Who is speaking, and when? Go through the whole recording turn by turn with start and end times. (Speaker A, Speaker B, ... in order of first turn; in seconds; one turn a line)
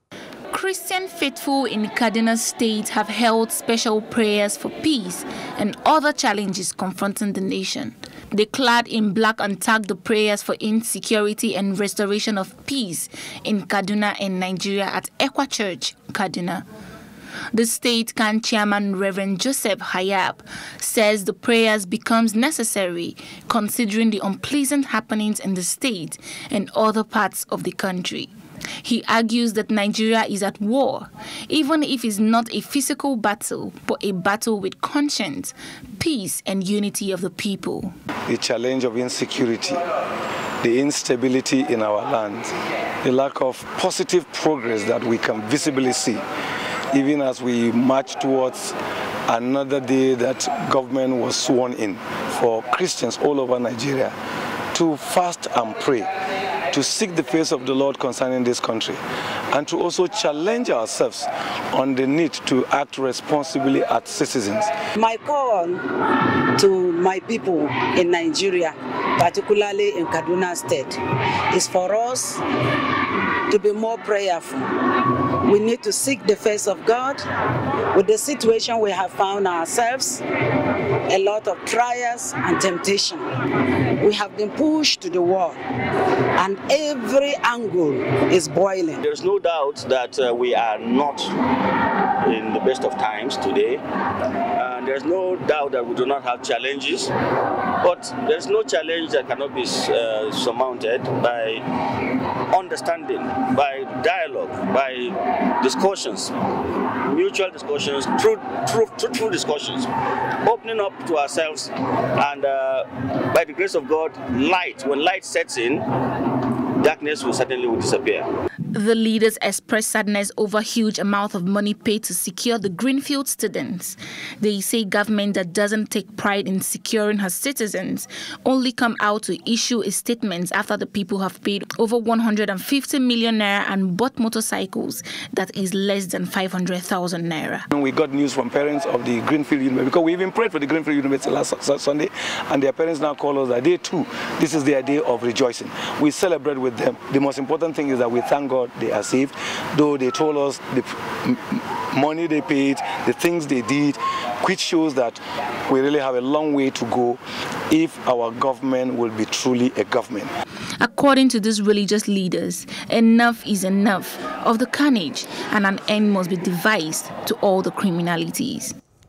Speaker A: 0.5-16.6
Speaker A: 17.5-28.3
Speaker A: 28.8-37.9
Speaker B: 38.3-39.8
Speaker B: 40.6-46.2
Speaker B: 46.9-48.8
Speaker B: 49.3-54.1
Speaker B: 54.7-56.1
Speaker B: 56.7-59.0
Speaker B: 59.5-64.7
Speaker C: 65.0-65.8
Speaker C: 66.6-71.0
Speaker C: 71.5-72.4
Speaker C: 73.5-74.7
Speaker C: 75.4-77.2
Speaker C: 77.9-80.2
Speaker C: 81.1-83.3
Speaker C: 84.0-85.6
Speaker C: 86.4-89.0
Speaker D: 89.0-91.3
Speaker D: 92.2-93.8
Speaker D: 94.6-97.1
Speaker D: 97.8-109.9
Speaker D: 110.4-115.8
Speaker D: 116.8-118.3
Speaker A: 118.7-137.7
Speaker B: 137.7-160.3
Speaker A: 160.8-168.8